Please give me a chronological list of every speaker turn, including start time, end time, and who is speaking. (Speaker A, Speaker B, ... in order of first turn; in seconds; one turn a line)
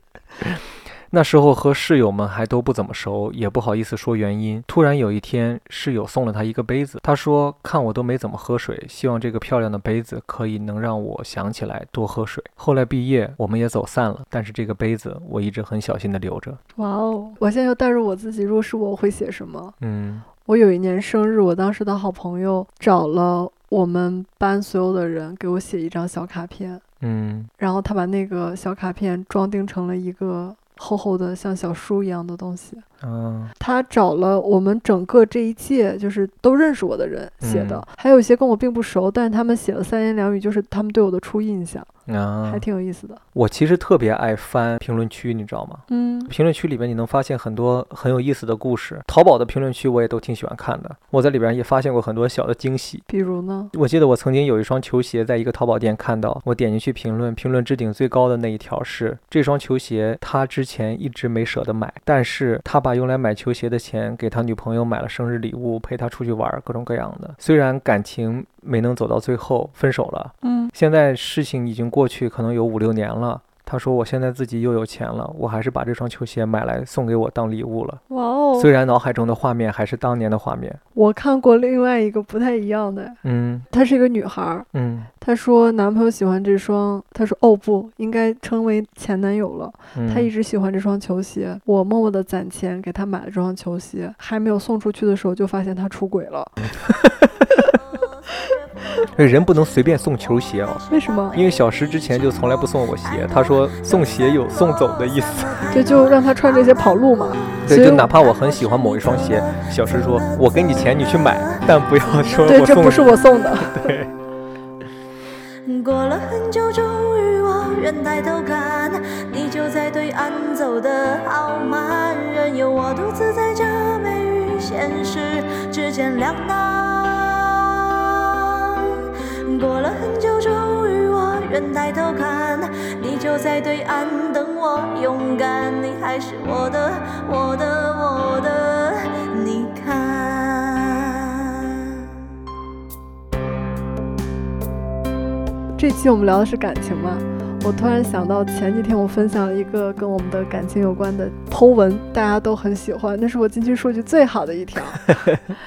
Speaker A: 0.4-16.6
Speaker B: 16.8-19.7
Speaker A: 19.8-20.2
Speaker B: 20.4-26.8
Speaker A: 27.0-27.5
Speaker B: 27.6-32.8
Speaker A: 33.0-33.5
Speaker B: 33.6-41.9
Speaker A: 37.4-37.8
Speaker A: 42.1-42.6
Speaker B: 42.4-43.2
Speaker A: 43.3-53.0
Speaker B: 45.9-46.3
Speaker B: 53.1-53.7
Speaker A: 53.7-78.0
Speaker B: 70.4-70.7
Speaker B: 78.1-78.7
Speaker A: 78.5-80.8
Speaker B: 80.9-83.2
Speaker A: 83.2-83.6
Speaker B: 83.7-84.7
Speaker A: 84.7-85.1
Speaker B: 85.2-96.5
Speaker A: 89.9-90.3
Speaker A: 96.8-97.7
Speaker C: 98.0-99.0
Speaker A: 99.1-105.7
Speaker C: 100.8-113.5
Speaker B: 100.9-101.4
Speaker B: 105.7-108.1
Speaker A: 107.6-114.1
Speaker B: 112.4-113.8
Speaker C: 115.6-128.9
Speaker C: 129.4-142.1
Speaker B: 145.7-155.2